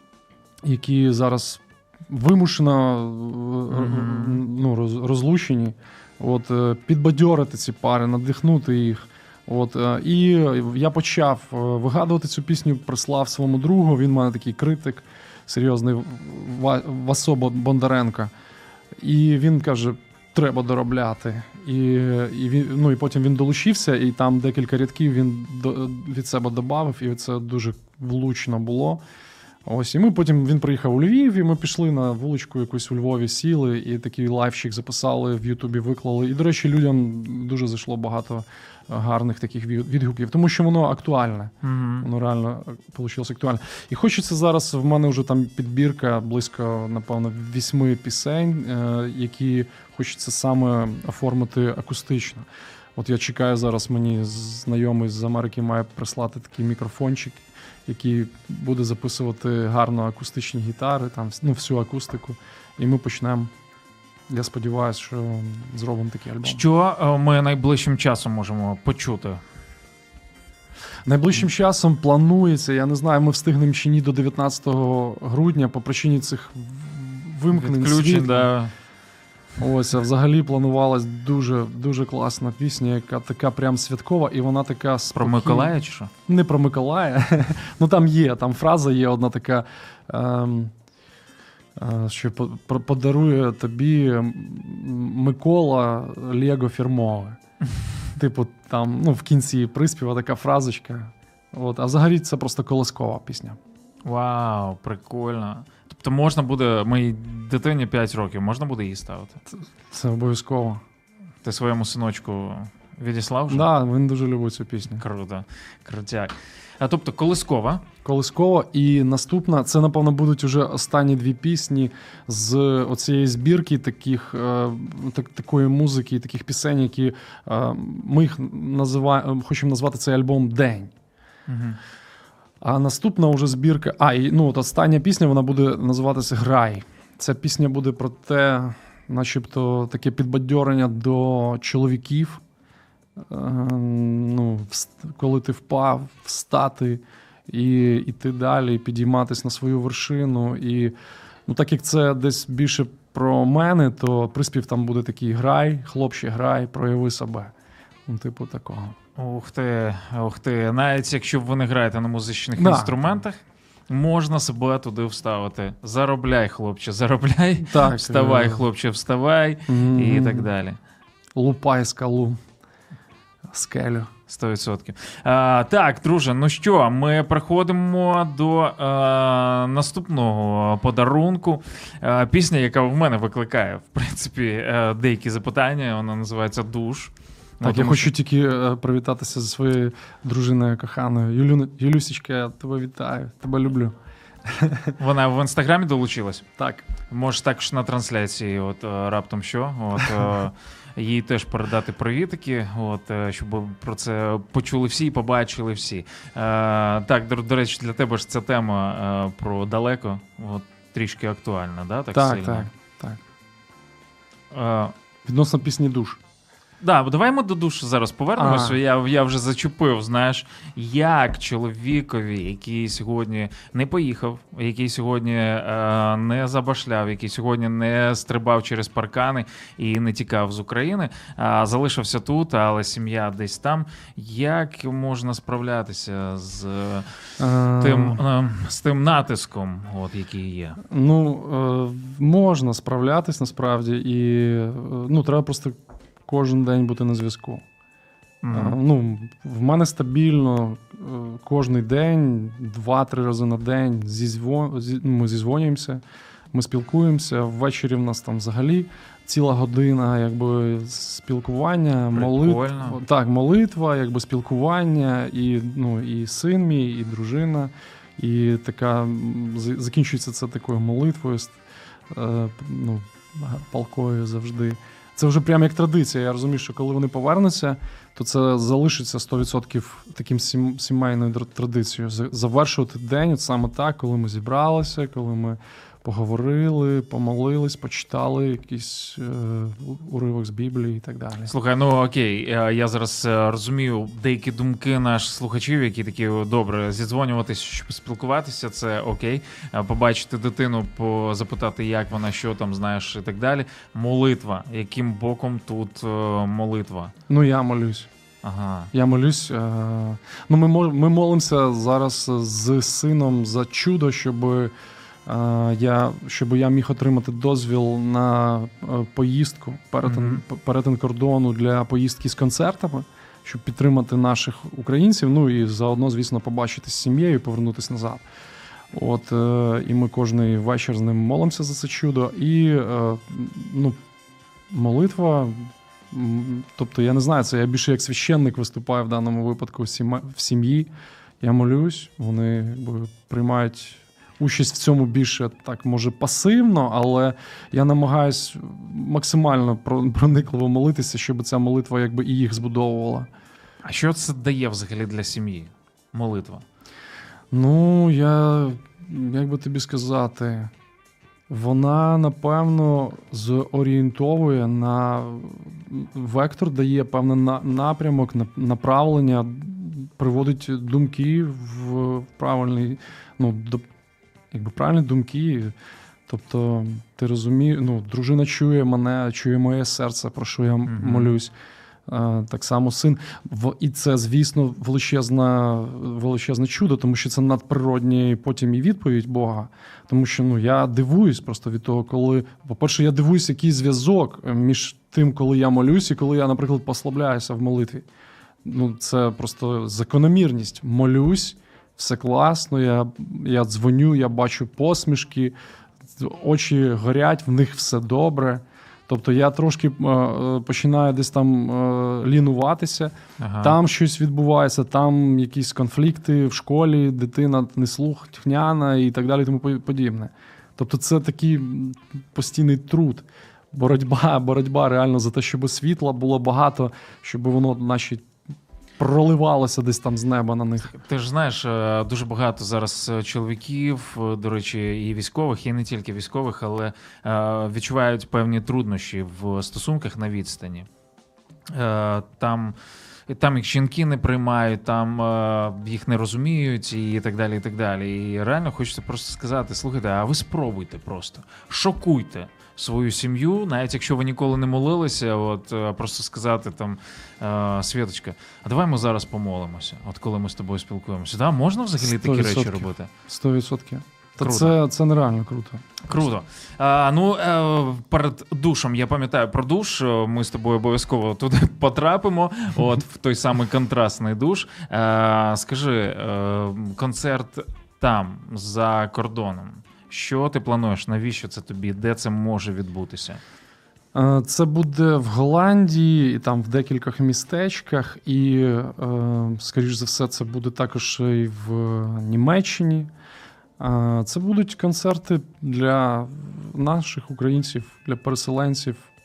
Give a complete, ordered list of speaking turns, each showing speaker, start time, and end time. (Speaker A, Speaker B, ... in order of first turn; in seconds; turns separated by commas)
Speaker A: 0.6-18.3, Speaker B: 3.7-4.4, Speaker A: 18.9-29.0, Speaker A: 29.6-63.5, Speaker B: 41.6-42.1, Speaker A: 64.3-66.6, Speaker B: 66.4-69.4, Speaker A: 71.0-78.5, Speaker B: 77.5-78.7, Speaker A: 79.6-85.7, Speaker B: 85.1-86.1, Speaker A: 86.3-90.7, Speaker A: 91.8-97.4, Speaker A: 98.2-103.6, Speaker B: 104.0-109.4, Speaker A: 109.5-110.8, Speaker B: 111.4-113.7, Speaker A: 113.5-115.0, Speaker B: 115.0-117.8, Speaker A: 118.0-130.9, Speaker B: 131.5-131.8, Speaker A: 132.6-142.4, Speaker A: 143.2-150.9, Speaker A: 151.5-157.5, Speaker A: 158.1-158.9, Speaker B: 159.2-170.8, Speaker A: 162.6-163.0, Speaker A: 167.6-168.6, Speaker A: 169.7-170.5, Speaker A: 171.3-172.4, Speaker A: 173.5-174.1, Speaker B: 174.3-188.1, Speaker A: 187.6-194.9, Speaker B: 195.0-196.4, Speaker A: 196.6-196.8, Speaker B: 197.1-212.7, Speaker A: 212.1-213.2, Speaker B: 214.5-214.9, Speaker A: 215.2-216.2, Speaker B: 216.8-237.2, Speaker A: 218.3-218.8, Speaker A: 237.4-238.2, Speaker B: 237.8-240.8, Speaker A: 240.8-247.6, Speaker B: 248.4-248.8, Speaker A: 248.5-271.6, Speaker B: 262.1-263.0, Speaker A: 272.1-291.5, Speaker B: 291.5-307.1, Speaker A: 307.3-308.1, Speaker B: 308.4-308.9, Speaker A: 308.9-314.7, Speaker A: 315.2-328.2, Speaker B: 320.0-320.4, Speaker A: 328.9-334.0, Speaker A: 334.7-353.3, Speaker B: 353.8-356.6, Speaker A: 357.5-360.7, Speaker A: 361.5-373.8, Speaker A: 374.5-375.7, Speaker A: 376.3-381.5, Speaker B: 380.9-381.3, Speaker A: 382.1-398.1, Speaker A: 398.6-405.5, Speaker A: 406.1-428.2, Speaker B: 413.4-413.8, Speaker A: 429.0-430.9, Speaker B: 430.9-440.9, Speaker B: 441.7-442.8, Speaker B: 443.3-463.1, Speaker A: 462.0-466.0, Speaker B: 464.4-464.7, Speaker B: 466.0-483.4, Speaker A: 484.1-493.1, Speaker A: 493.8-499.1